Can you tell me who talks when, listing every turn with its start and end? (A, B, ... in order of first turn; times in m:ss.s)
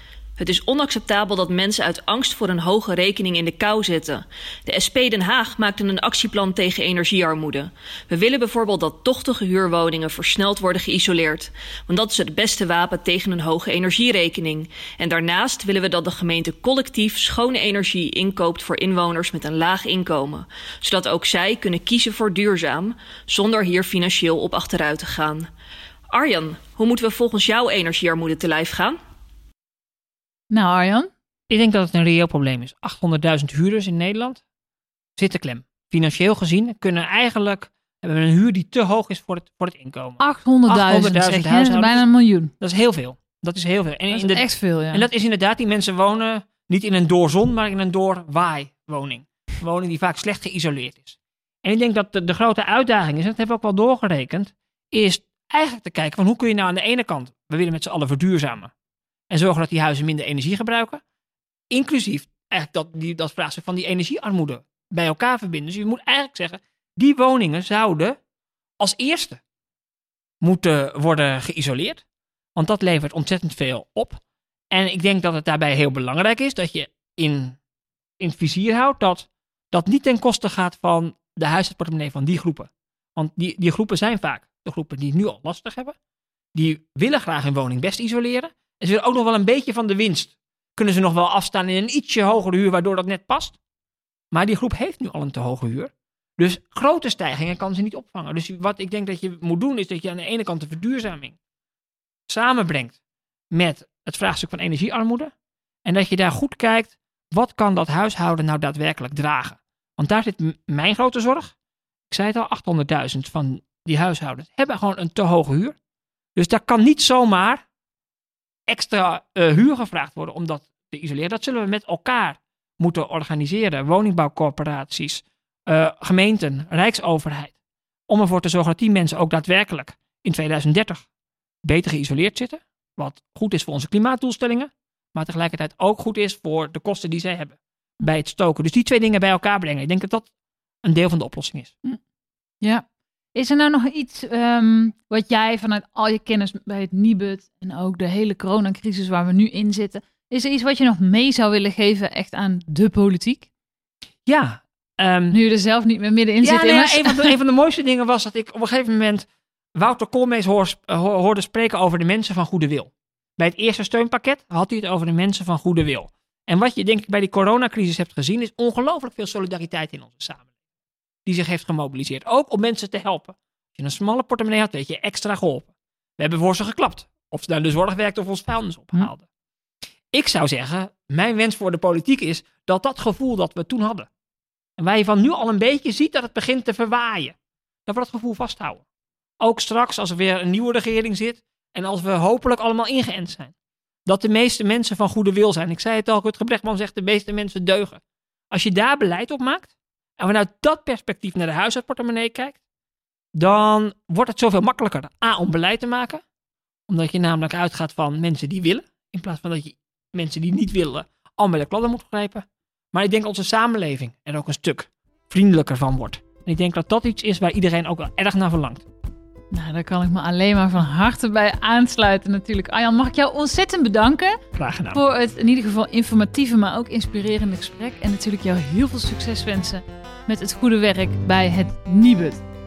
0:00.4-0:25.5 A
0:26.1-0:29.0 A
0:30.5-0:31.1 B
0:31.5-0:34.4 C
0:35.2-0:42.0 C
0:40.2-0:42.5 B
0:42.6-0:58.7 C
0:44.1-0:45.1 B
0:59.3-1:01.0 C
1:01.7-1:08.2 C
1:08.8-1:09.4 C
1:10.4-1:12.0 C
1:12.5-1:14.2 C
1:14.7-1:17.6 C
1:18.2-1:26.0 C
1:26.5-1:33.6 C
1:34.3-1:41.4 C
1:42.3-1:43.0 C
1:43.5-1:45.3 C
1:45.8-1:51.5 C
1:52.1-1:55.8 C
1:56.3-1:57.6 C
1:58.7-2:07.5 C
2:08.1-2:11.0 C
2:11.6-2:20.3 C
2:20.8-2:21.8 C
2:22.6-2:33.5 B
2:34.2-2:35.4 C
2:35.3-2:37.3 B
2:36.4-2:50.4 C
2:51.2-2:59.2 C
3:00.1-3:04.1 C
3:04.8-3:08.8 C
3:09.4-3:13.5 C
3:14.0-3:22.6 C
3:23.3-3:26.2 C
3:26.9-3:38.8 C
3:39.5-3:44.4 B
3:44.6-3:45.0 C
3:44.9-3:52.4 B